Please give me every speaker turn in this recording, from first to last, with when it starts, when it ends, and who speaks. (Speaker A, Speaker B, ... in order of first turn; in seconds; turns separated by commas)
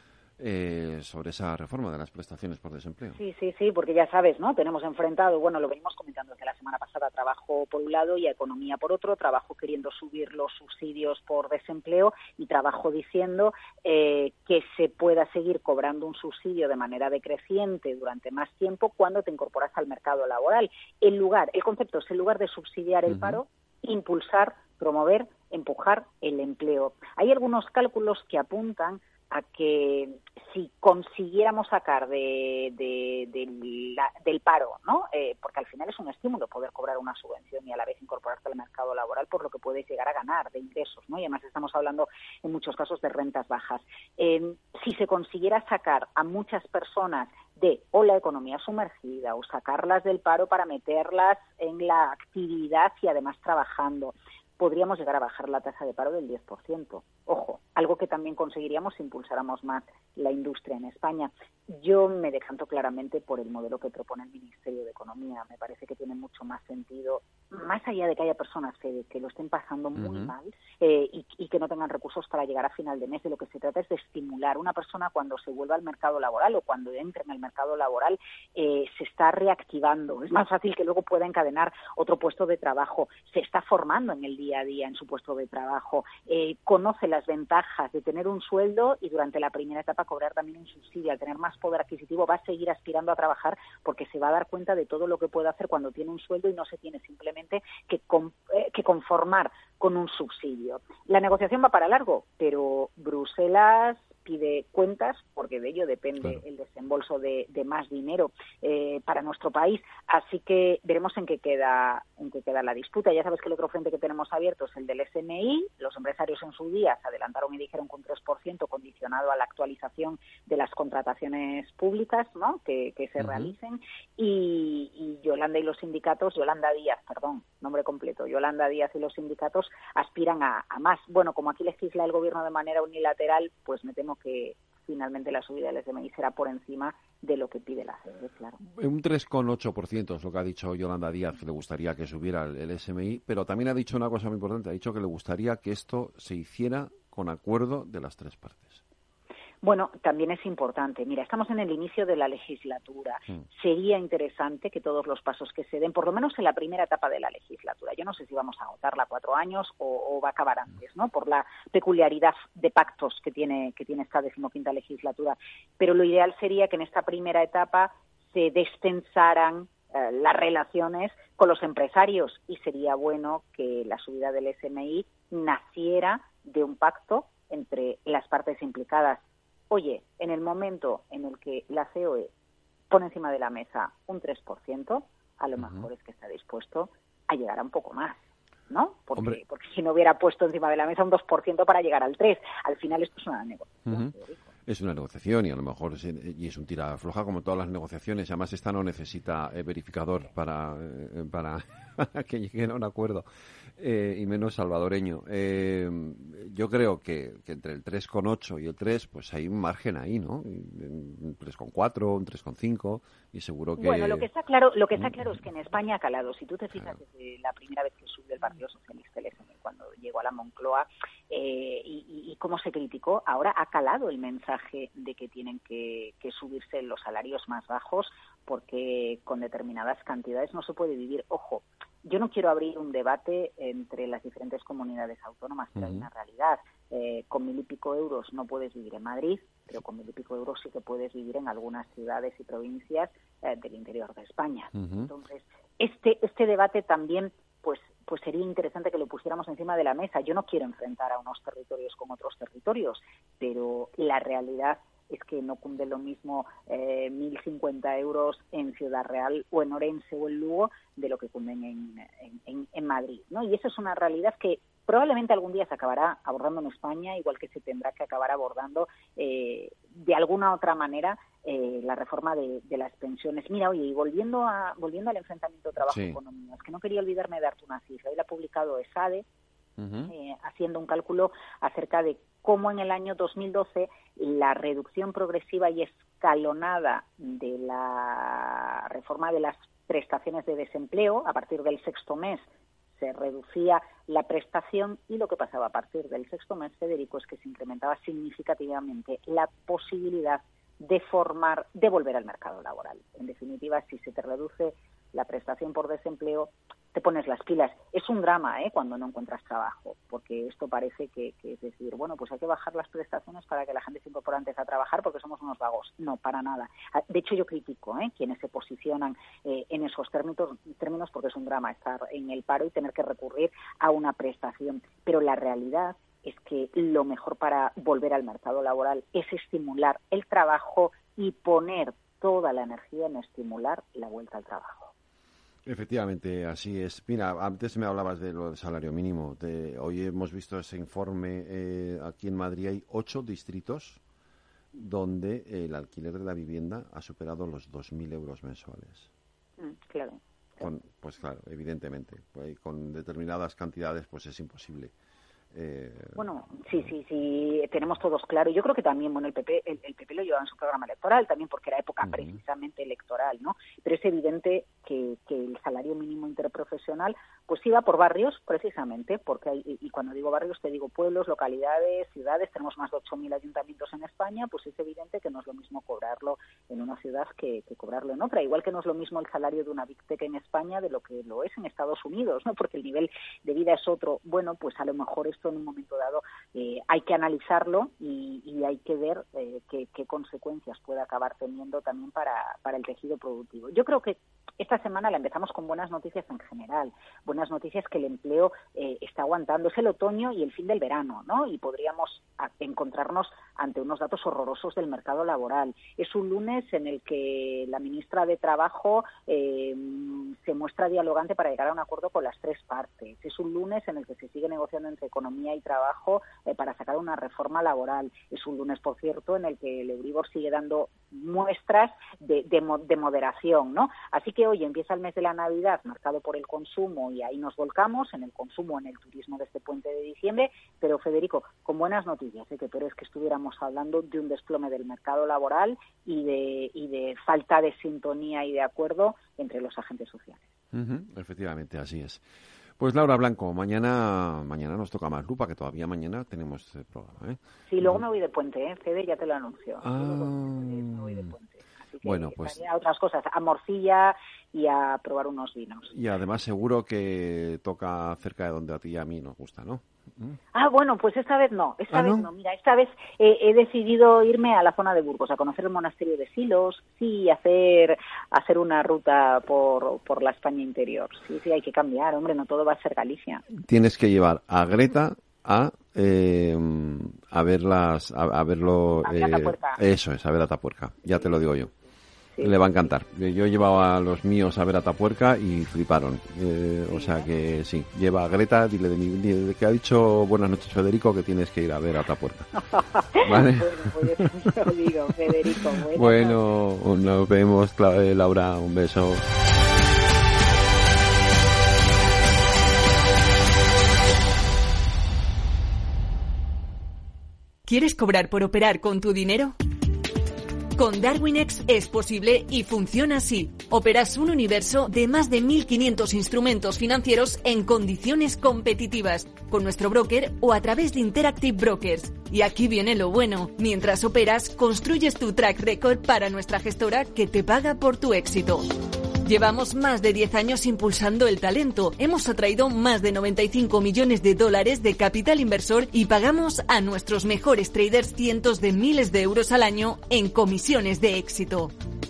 Speaker A: 0.4-3.2, Speaker B: 3.2-138.6, Speaker A: 23.1-23.4, Speaker A: 70.0-70.3, Speaker A: 123.2-123.5, Speaker A: 138.7-148.8, Speaker B: 149.6-182.3, Speaker B: 182.9-188.2, Speaker A: 185.6-185.9, Speaker B: 188.7-194.4, Speaker A: 193.9-194.1, Speaker A: 194.7-203.2, Speaker A: 203.8-214.3, Speaker B: 213.8-279.2, Speaker A: 214.9-215.4, Speaker A: 235.7-236.1, Speaker A: 244.7-245.1, Speaker A: 275.9-276.2, Speaker A: 279.8-280.1, Speaker B: 280.1-292.4, Speaker B: 293.0-334.9, Speaker A: 335.6-344.0, Speaker A: 344.7-349.1, Speaker B: 349.6-350.7, Speaker A: 350.6-354.9, Speaker A: 355.5-356.2, Speaker B: 356.1-440.5, Speaker A: 362.0-362.4, Speaker A: 440.7-442.2, Speaker A: 442.8-448.0, Speaker B: 447.7-455.9, Speaker A: 449.8-451.3, Speaker A: 452.0-452.6, Speaker A: 455.9-460.4, Speaker B: 460.5-473.4, Speaker A: 461.9-462.3, Speaker A: 473.5-481.7, Speaker B: 479.0-479.8, Speaker B: 482.3-482.9, Speaker A: 482.4-492.5, Speaker B: 486.9-487.3, Speaker B: 493.1-496.4, Speaker A: 493.2-494.1, Speaker A: 495.9-499.2, Speaker C: 507.6-509.6, Speaker C: 510.8-528.7, Speaker C: 529.2-541.7